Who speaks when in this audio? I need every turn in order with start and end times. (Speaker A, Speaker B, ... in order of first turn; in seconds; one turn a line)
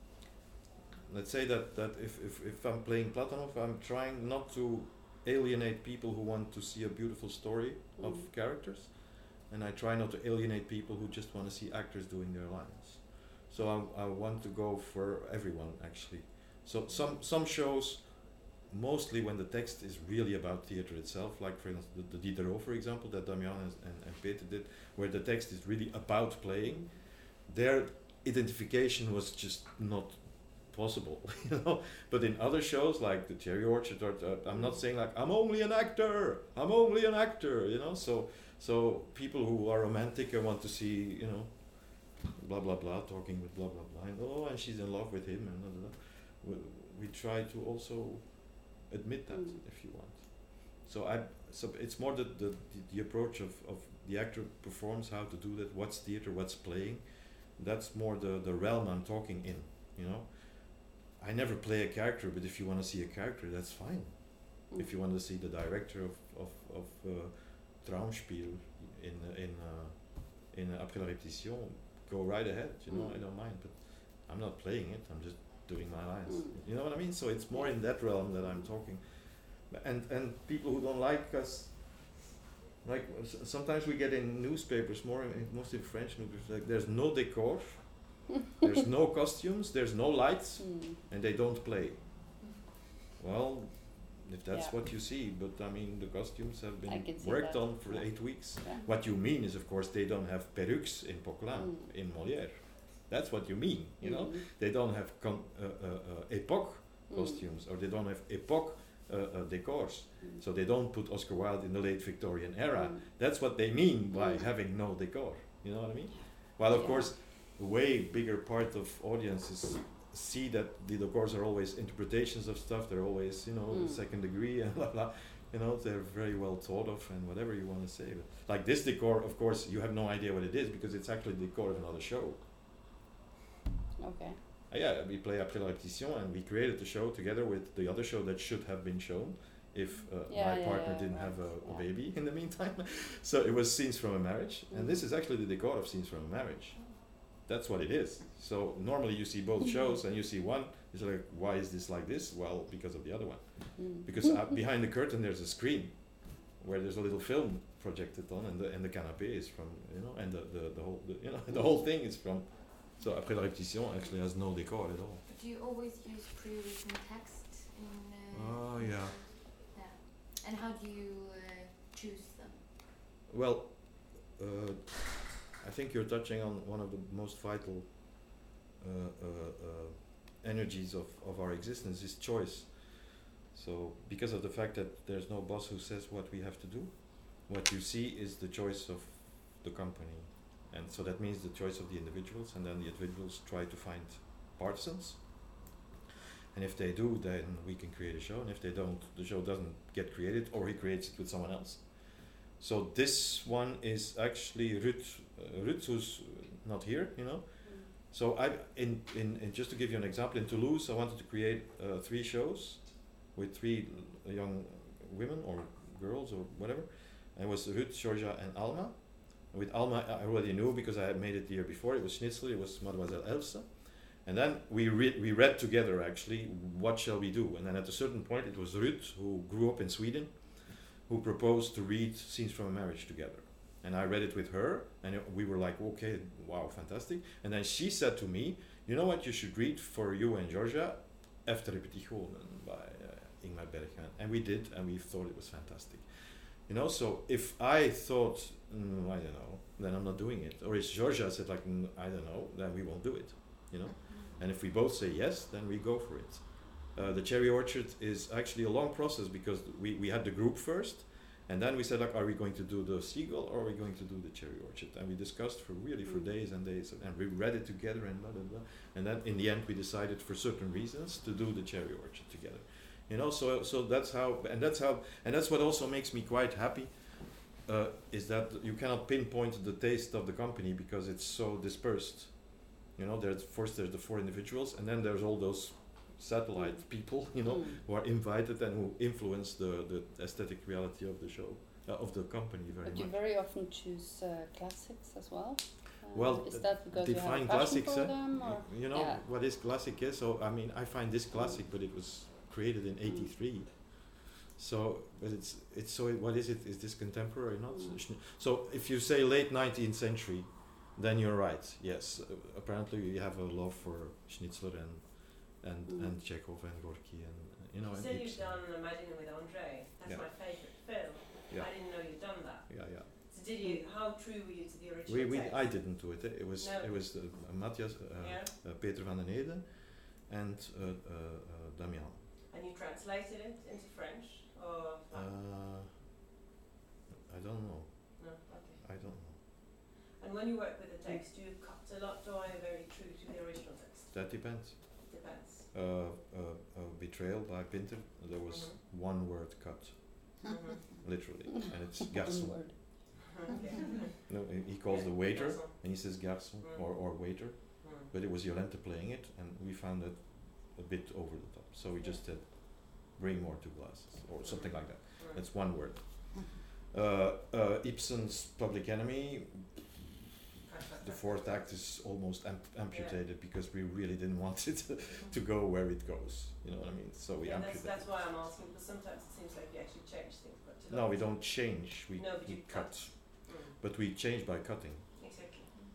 Speaker A: 1.1-82.3
Speaker B: 8.0-8.3
Speaker B: 72.9-73.2
Speaker B: 76.3-76.5
Speaker A: 82.8-92.0
Speaker B: 90.6-91.0
Speaker A: 93.2-132.4
Speaker B: 96.9-98.8
Speaker B: 101.5-101.9
Speaker B: 104.0-104.5
Speaker B: 107.1-107.4
Speaker B: 112.7-113.0
Speaker B: 114.1-114.4
Speaker B: 116.7-117.1
Speaker B: 123.7-124.0
Speaker B: 134.0-134.4
Speaker A: 134.7-165.2
Speaker B: 140.3-141.8
Speaker B: 144.7-145.0
Speaker B: 153.8-154.3
Speaker C: 165.3-172.7
Speaker A: 168.3-169.4
Speaker A: 173.3-195.4
Speaker A: 196.5-293.2
Speaker C: 253.9-254.4
Speaker B: 287.4-287.8
Speaker B: 292.8-299.2
Speaker A: 296.1-318.6
Speaker B: 301.3-301.6
Speaker B: 303.1-303.3
Speaker B: 307.7-308.0
Speaker B: 315.9-316.1
Speaker D: 317.9-327.5
Speaker A: 320.0-320.6
Speaker A: 321.5-323.1
Speaker A: 325.1-332.2
Speaker D: 328.2-328.5
Speaker D: 332.5-335.3
Speaker A: 335.1-335.9
Speaker A: 337.3-339.4
Speaker D: 338.2-338.9
Speaker D: 339.4-344.3
Speaker A: 344.1-345.1
Speaker D: 345.0-345.7
Speaker A: 345.7-350.3
Speaker D: 348.5-348.8
Speaker D: 350.4-350.8
Speaker A: 351.0-352.9
Speaker B: 352.2-352.7
Speaker D: 353.3-358.1
Speaker A: 354.3-369.9
Speaker D: 364.4-365.4
Speaker D: 370.6-371.6
Speaker A: 371.0-378.1
Speaker D: 372.9-373.2
Speaker D: 377.4-383.7
Speaker A: 380.9-385.2
Speaker D: 385.2-385.7